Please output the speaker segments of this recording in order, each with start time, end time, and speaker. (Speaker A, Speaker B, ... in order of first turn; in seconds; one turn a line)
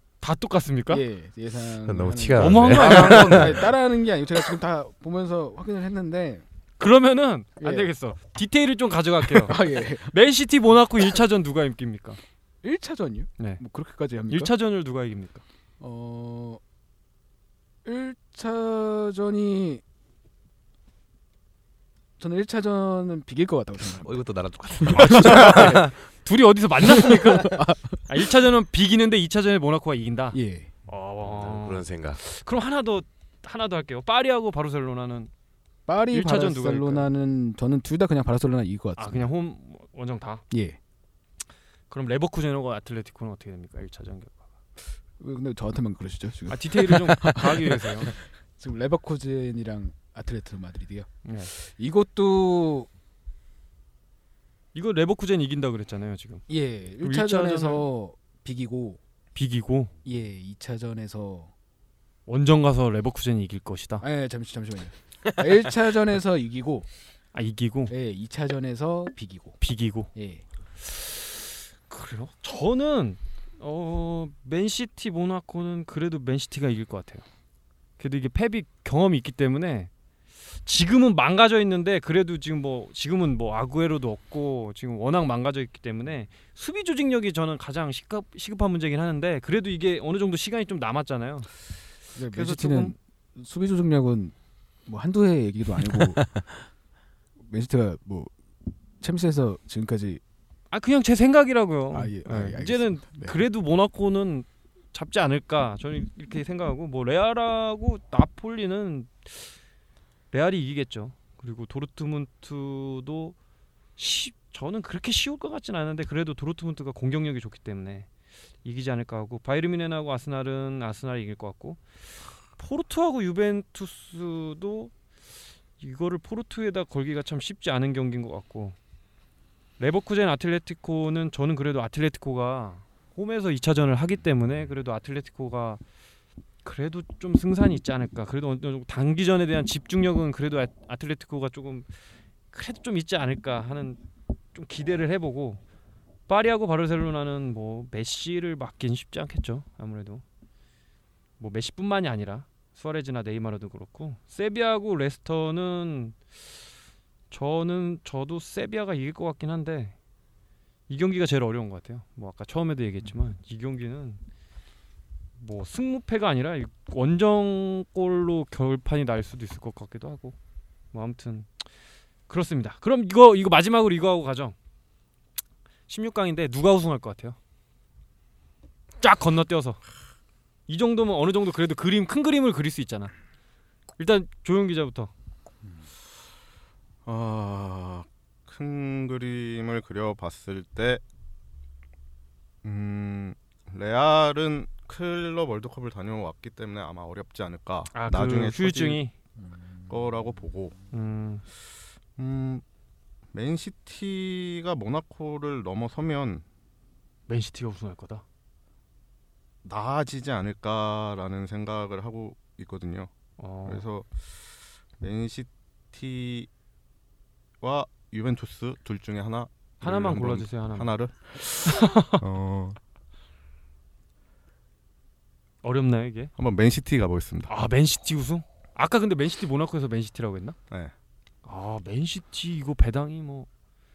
Speaker A: 0.2-1.0
Speaker B: 0.9-6.4
Speaker C: 1.8-3.7
Speaker A: 2.4-3.6
Speaker A: 6.8-12.2
Speaker B: 7.6-7.9
Speaker B: 9.2-10.1
Speaker B: 12.6-14.5
Speaker A: 14.3-15.4
Speaker B: 15.8-16.6
Speaker B: 17.8-19.8
Speaker B: 22.2-24.2
Speaker C: 23.9-25.9
Speaker B: 24.8-25.8
Speaker A: 24.9-35.3
Speaker B: 26.8-28.2
Speaker B: 30.3-30.7
Speaker C: 31.2-32.2
Speaker B: 35.9-39.2
Speaker A: 36.1-37.1
Speaker A: 39.0-40.4
Speaker B: 40.5-40.8
Speaker A: 41.9-44.4
Speaker B: 45.2-52.9
Speaker A: 46.5-48.1
Speaker A: 51.2-51.5
Speaker A: 54.7-56.4
Speaker B: 56.5-59.0
Speaker A: 57.0-57.9
Speaker A: 59.3-59.9
Speaker B: 60.0-61.5
Speaker A: 62.3-64.0
Speaker B: 64.0-66.8
Speaker A: 67.3-67.9
Speaker B: 67.9-69.6
Speaker A: 69.6-70.1
Speaker B: 70.1-70.4
Speaker A: 70.8-71.3
Speaker A: 71.9-77.2
Speaker A: 78.0-79.9
Speaker A: 80.6-91.5
Speaker B: 92.1-94.3
Speaker A: 92.3-92.9
Speaker B: 94.8-96.2
Speaker B: 97.4-98.3
Speaker B: 99.0-100.2
Speaker A: 100.7-109.5
Speaker B: 101.9-103.4
Speaker A: 110.3-113.3
Speaker A: 114.0-118.1
Speaker A: 118.6-121.8
Speaker A: 122.5-124.9
Speaker A: 125.8-128.8
Speaker A: 129.8-135.8
Speaker A: 136.6-141.9
Speaker A: 142.5-144.0
Speaker A: 144.5-145.6
Speaker A: 146.3-150.2
Speaker A: 151.4-156.2
Speaker A: 157.3-159.9
Speaker A: 160.9-164.2
Speaker A: 165.4-170.3
Speaker A: 170.9-171.5
Speaker A: 172.3-174.6
Speaker A: 175.9-177.4
Speaker A: 179.0-179.8
Speaker A: 180.7-183.1
Speaker A: 184.0-185.1
Speaker D: 187.1-191.0
Speaker D: 192.6-199.0
Speaker A: 197.9-199.1
Speaker B: 199.4-199.6
Speaker D: 199.9-200.8
Speaker A: 200.9-201.4
Speaker D: 202.2-202.6
Speaker D: 203.3-206.4
Speaker A: 207.3-208.2
Speaker D: 209.6-213.1
Speaker A: 213.4-213.8
Speaker D: 213.6-214.2
Speaker D: 215.0-216.5
Speaker D: 217.6-222.8
Speaker A: 219.8-220.9
Speaker A: 221.4-222.2
Speaker A: 225.6-226.3
Speaker D: 226.4-227.5
Speaker A: 227.5-230.6
Speaker A: 231.4-233.5